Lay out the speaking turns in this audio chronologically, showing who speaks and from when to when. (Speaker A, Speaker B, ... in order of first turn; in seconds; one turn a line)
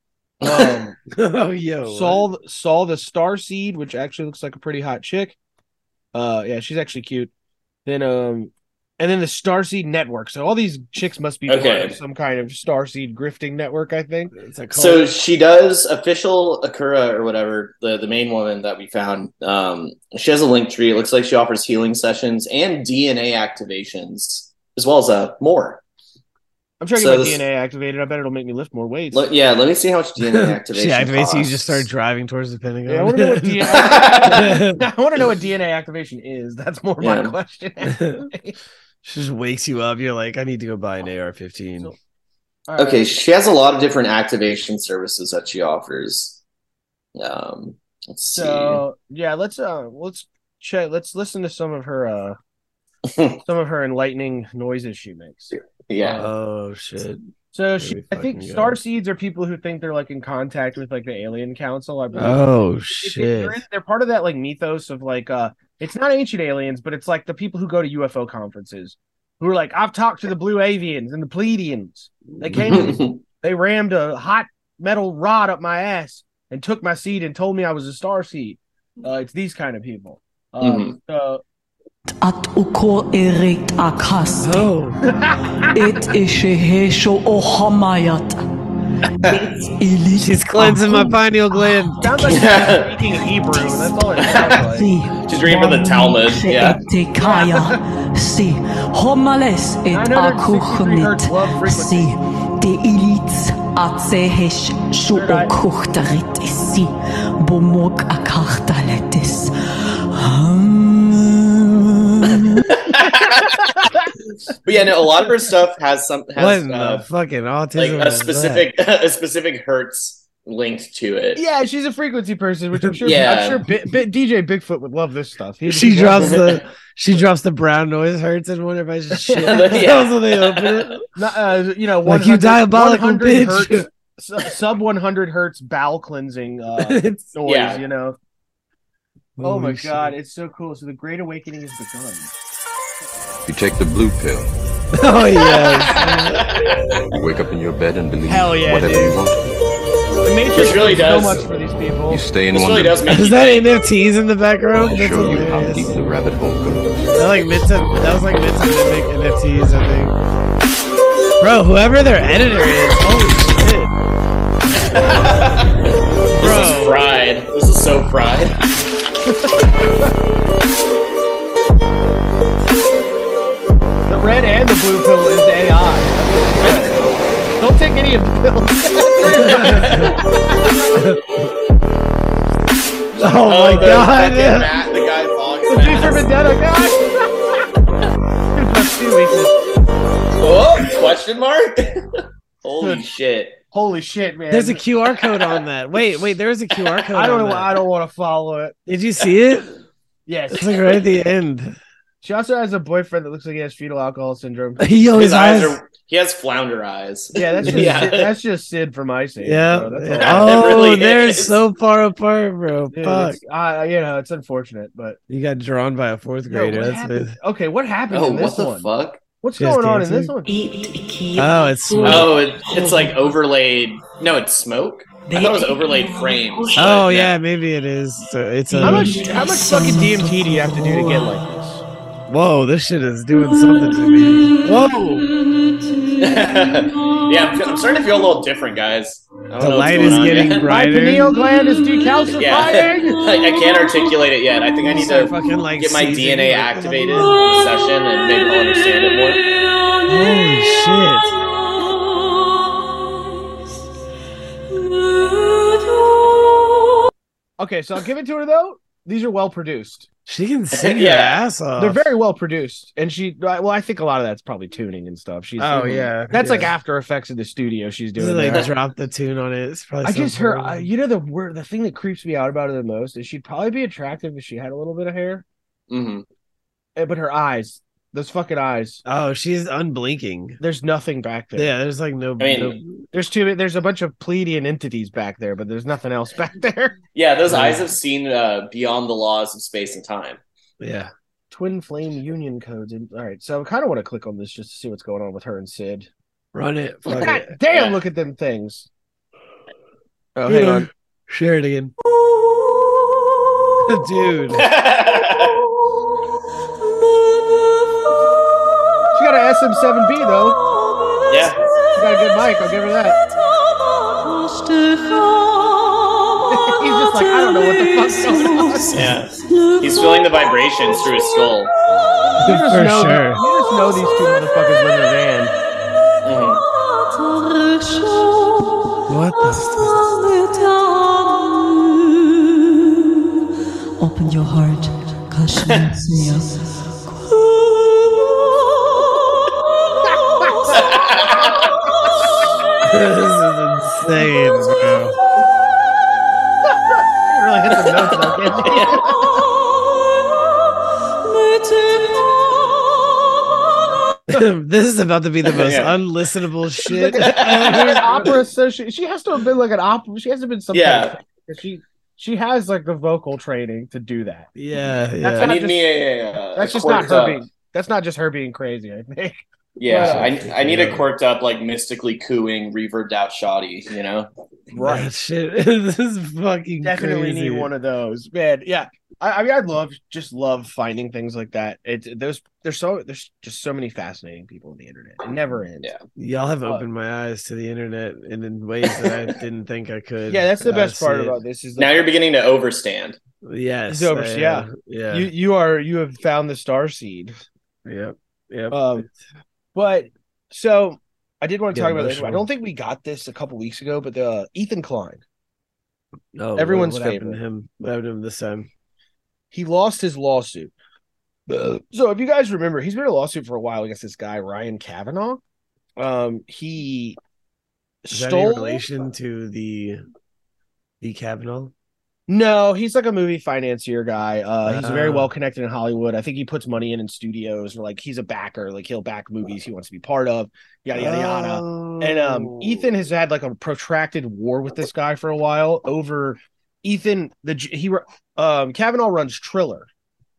Speaker A: 0.4-1.0
Speaker B: 0.4-0.8
Speaker C: 1.1-2.3
Speaker A: 1.9-5.4
Speaker A: 6.1-7.3
Speaker A: 7.8-14.3
Speaker B: 11.5-12.0
Speaker C: 14.3-15.1
Speaker B: 14.7-25.8
Speaker A: 26.8-29.3
Speaker B: 26.9-27.4
Speaker B: 29.1-31.9
Speaker C: 30.2-34.9
Speaker A: 32.9-38.6
Speaker B: 33.7-34.6
Speaker B: 37.0-37.4
Speaker C: 37.8-38.3
Speaker C: 39.0-41.9
Speaker A: 42.7-43.1
Speaker B: 42.8-46.4
Speaker B: 47.1-48.8
Speaker A: 48.3-52.4
Speaker B: 53.1-53.4
Speaker A: 53.4-56.3
Speaker B: 55.5-56.3
Speaker C: 56.1-58.8
Speaker A: 57.5-81.4
Speaker C: 62.1-63.6
Speaker B: 72.7-73.2
Speaker B: 80.6-81.0
Speaker D: 82.2-84.7
Speaker C: 84.4-85.0
Speaker A: 85.1-85.8
Speaker D: 85.7-88.4
Speaker D: 89.2-92.5
Speaker C: 90.2-92.2
Speaker A: 92.0-94.9
Speaker B: 92.3-92.9
Speaker D: 93.6-112.8
Speaker B: 95.3-96.8
Speaker A: 97.2-97.8
Speaker A: 99.9-102.1
Speaker A: 105.1-105.5
Speaker B: 112.8-113.5
Speaker A: 113.0-114.0
Speaker B: 114.6-117.1
Speaker C: 116.4-118.7
Speaker B: 117.8-121.4
Speaker A: 121.4-126.6
Speaker B: 123.0-123.7
Speaker C: 125.6-131.1
Speaker A: 129.2-129.9
Speaker B: 129.4-130.9
Speaker A: 131.1-138.2
Speaker C: 132.0-133.9
Speaker C: 136.8-137.2
Speaker B: 137.4-137.8
Speaker C: 139.4-140.2
Speaker A: 139.4-142.3
Speaker E: 143.4-144.5
Speaker C: 144.9-146.6
Speaker B: 145.4-147.0
Speaker E: 147.1-149.5
Speaker A: 148.3-149.2
Speaker A: 150.2-152.3
Speaker B: 150.5-151.5
Speaker E: 152.1-153.1
Speaker B: 152.5-153.7
Speaker C: 153.1-155.9
Speaker E: 154.7-157.1
Speaker C: 157.1-160.1
Speaker C: 161.4-163.9
Speaker B: 164.8-165.7
Speaker C: 166.4-167.0
Speaker B: 166.4-168.6
Speaker A: 174.1-177.0
Speaker B: 176.6-177.0
Speaker A: 177.6-181.0
Speaker B: 179.3-180.1
Speaker C: 179.4-180.1
Speaker C: 180.9-181.5
Speaker C: 183.2-184.7
Speaker A: 183.2-184.1
Speaker B: 183.4-186.3
Speaker A: 185.7-187.6
Speaker A: 188.6-189.5
Speaker B: 190.4-192.1
Speaker B: 192.6-193.6
Speaker A: 193.7-194.8
Speaker C: 194.5-197.8
Speaker B: 195.2-195.6
Speaker A: 197.1-198.8
Speaker C: 198.9-199.7
Speaker A: 200.3-200.9
Speaker C: 200.5-201.8
Speaker A: 202.2-204.9
Speaker C: 204.8-205.8
Speaker B: 205.1-208.4
Speaker A: 207.3-210.9
Speaker C: 207.6-208.1
Speaker C: 209.4-213.4
Speaker B: 210.1-211.6
Speaker A: 212.9-215.2
Speaker C: 215.3-217.4
Speaker A: 216.5-218.9
Speaker B: 218.1-219.2
Speaker A: 219.4-220.5
Speaker C: 219.6-220.3
Speaker D: 220.4-223.4
Speaker C: 221.4-222.3
Speaker B: 222.0-227.3
Speaker D: 225.3-226.9
Speaker C: 226.8-229.3
Speaker D: 228.7-231.3
Speaker A: 228.8-231.8
Speaker C: 232.3-235.3
Speaker D: 233.7-234.0
Speaker D: 234.6-234.9
Speaker D: 236.2-236.7
Speaker B: 236.2-240.7
Speaker D: 237.4-237.9
Speaker C: 239.6-241.3
Speaker A: 240.6-243.3
Speaker B: 242.4-249.4
Speaker C: 244.8-247.6
Speaker C: 250.1-251.3
Speaker A: 257.6-260.1
Speaker C: 260.3-262.1
Speaker B: 260.7-261.4
Speaker A: 261.8-268.7
Speaker C: 265.6-266.7
Speaker C: 268.2-270.9
Speaker A: 270.0-275.4
Speaker B: 275.9-276.2
Speaker A: 276.9-279.0
Speaker C: 279.1-280.6
Speaker A: 280.6-281.7
Speaker C: 281.5-283.1
Speaker B: 282.4-282.8
Speaker A: 283.1-287.0
Speaker B: 287.1-290.4
Speaker C: 287.5-287.9
Speaker C: 290.8-291.1
Speaker A: 291.5-296.1
Speaker C: 296.5-297.5
Speaker A: 297.1-298.9
Speaker B: 297.7-298.0
Speaker A: 300.4-300.9
Speaker C: 300.4-301.9
Speaker C: 303.9-304.7
Speaker B: 304.5-305.6
Speaker A: 309.1-310.6
Speaker B: 311.3-311.6
Speaker A: 311.9-313.2
Speaker D: 314.6-315.7
Speaker A: 316.5-319.0
Speaker D: 317.1-321.6
Speaker C: 318.9-319.2
Speaker B: 318.9-321.7
Speaker A: 322.4-325.5
Speaker C: 322.4-323.4
Speaker B: 326.2-326.6
Speaker D: 327.3-328.8
Speaker C: 329.1-330.1
Speaker D: 329.4-332.1
Speaker D: 334.0-338.3
Speaker B: 340.7-341.7
Speaker C: 342.9-345.1
Speaker A: 346.9-349.4
Speaker B: 347.9-349.0
Speaker D: 351.8-352.2
Speaker C: 354.3-358.3
Speaker B: 355.5-356.0
Speaker A: 356.9-364.5
Speaker B: 357.1-358.3
Speaker B: 360.7-361.2
Speaker C: 364.6-365.6
Speaker A: 365.2-366.0
Speaker B: 365.4-367.4
Speaker A: 366.6-370.5
Speaker B: 369.8-374.3
Speaker C: 369.9-371.1
Speaker A: 374.7-375.1
Speaker C: 374.8-377.7
Speaker A: 376.8-385.9
Speaker C: 386.2-391.4
Speaker A: 390.3-392.1
Speaker B: 391.8-393.2
Speaker C: 393.4-395.3
Speaker A: 393.9-397.3
Speaker C: 397.9-399.1
Speaker A: 398.7-399.1
Speaker A: 399.7-405.2
Speaker C: 401.7-402.5
Speaker C: 406.3-408.7
Speaker A: 406.6-407.4
Speaker A: 409.5-410.7
Speaker A: 411.8-415.4
Speaker A: 416.0-417.2
Speaker A: 418.0-418.8
Speaker C: 418.1-420.0
Speaker C: 421.0-421.7
Speaker A: 422.3-439.9
Speaker C: 424.6-425.3
Speaker C: 430.9-432.9